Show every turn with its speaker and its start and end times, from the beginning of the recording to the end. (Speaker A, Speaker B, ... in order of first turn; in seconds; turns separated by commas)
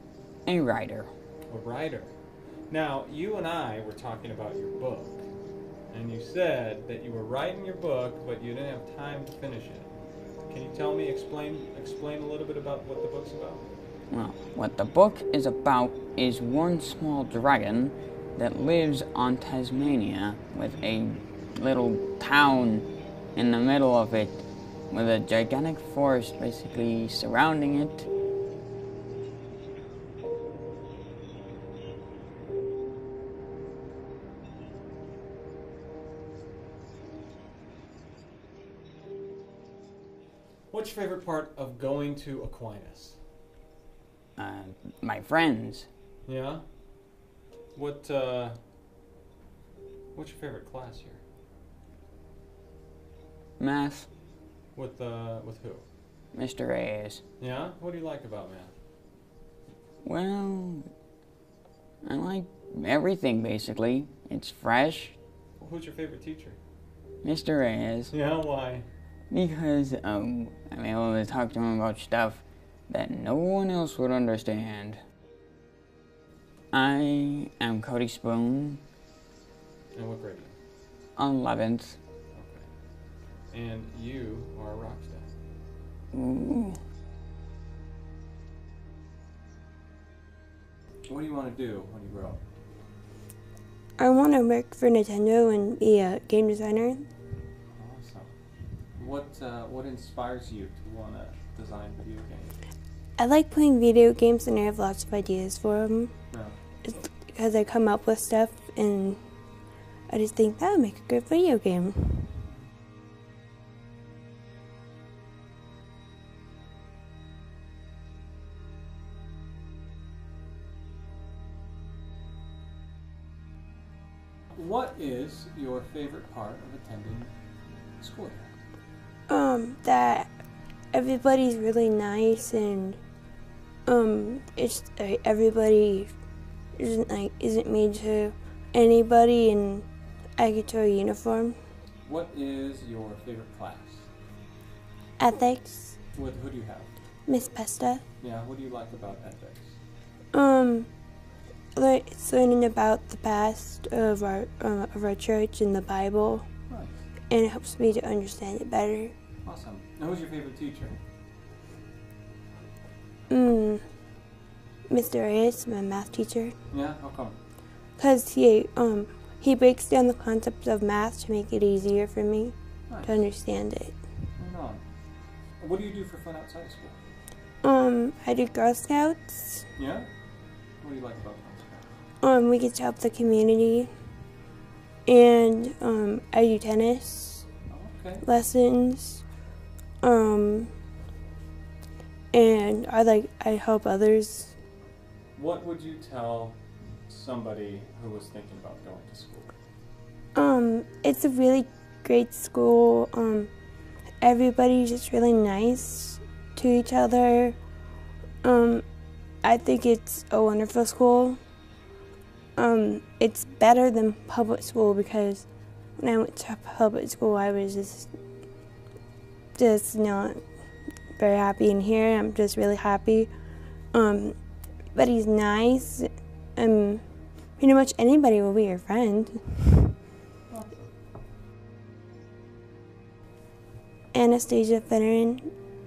Speaker A: 0.5-1.1, Speaker B: 1.5-2.1, Speaker B: 2.7-5.2, Speaker B: 5.9-9.9, Speaker B: 10.5-13.6, Speaker A: 14.1-28.1, Speaker B: 40.7-43.2, Speaker A: 44.4-45.9, Speaker B: 46.2-46.6, Speaker B: 47.8-48.6, Speaker B: 50.1-51.2, Speaker A: 53.6-54.1, Speaker B: 54.8-55.8, Speaker A: 56.3-57.2, Speaker B: 57.4-58.7, Speaker A: 60.0-60.9, Speaker A: 62.0-65.2, Speaker B: 65.6-66.6, Speaker A: 67.2-68.1, Speaker B: 68.1-68.9, Speaker A: 69.3-75.0, Speaker A: 76.7-78.8, Speaker B: 79.9-80.5, Speaker A: 81.2-82.0, Speaker B: 82.3-82.7, Speaker B: 83.5-85.3, Speaker A: 86.1-86.8, Speaker B: 91.1-92.4, Speaker C: 94.0-97.1, Speaker B: 97.7-98.3, Speaker B: 99.0-102.6, Speaker C: 103.2-106.2, Speaker B: 106.3-106.6, Speaker C: 106.8-109.2, Speaker C: 110.1-112.3, Speaker B: 124.5-127.3, Speaker B: 128.0-128.5, Speaker C: 129.3-130.3, Speaker C: 130.9-133.0, Speaker C: 133.8-136.1, Speaker C: 136.8-141.6, Speaker B: 142.0-144.1, Speaker C: 145.2-146.0, Speaker B: 146.1-146.9, Speaker C: 147.2-148.0, Speaker B: 148.2-149.8, Speaker C: 150.3-150.9, Speaker C: 151.8-156.5, Speaker B: 156.7-157.0, Speaker C: 157.3-159.1, Speaker B: 159.4-161.0, Speaker C: 163.3-163.8, Speaker C: 164.9-166.5, Speaker B: 166.7-167.4, Speaker C: 168.0-174.0, Speaker B: 172.9-173.2, Speaker B: 174.4-174.8, Speaker B: 175.6-177.0, Speaker C: 177.6-179.7, Speaker B: 179.8-180.1, Speaker B: 180.8-181.9, Speaker C: 182.2-183.9, Speaker C: 185.1-187.5, Speaker B: 187.7-188.2, Speaker C: 188.2-189.2, Speaker C: 190.0-190.7, Speaker C: 192.3-194.6, Speaker B: 195.3-199.5, Speaker C: 200.3-203.5, Speaker C: 204.2-207.6, Speaker C: 208.4-208.8, Speaker C: 209.4-211.4, Speaker C: 212.6-218.1, Speaker C: 219.6-220.4, Speaker C: 221.2-223.3, Speaker C: 223.9-224.4, Speaker C: 224.9-229.9, Speaker B: 230.5-230.9, Speaker C: 234.1-235.5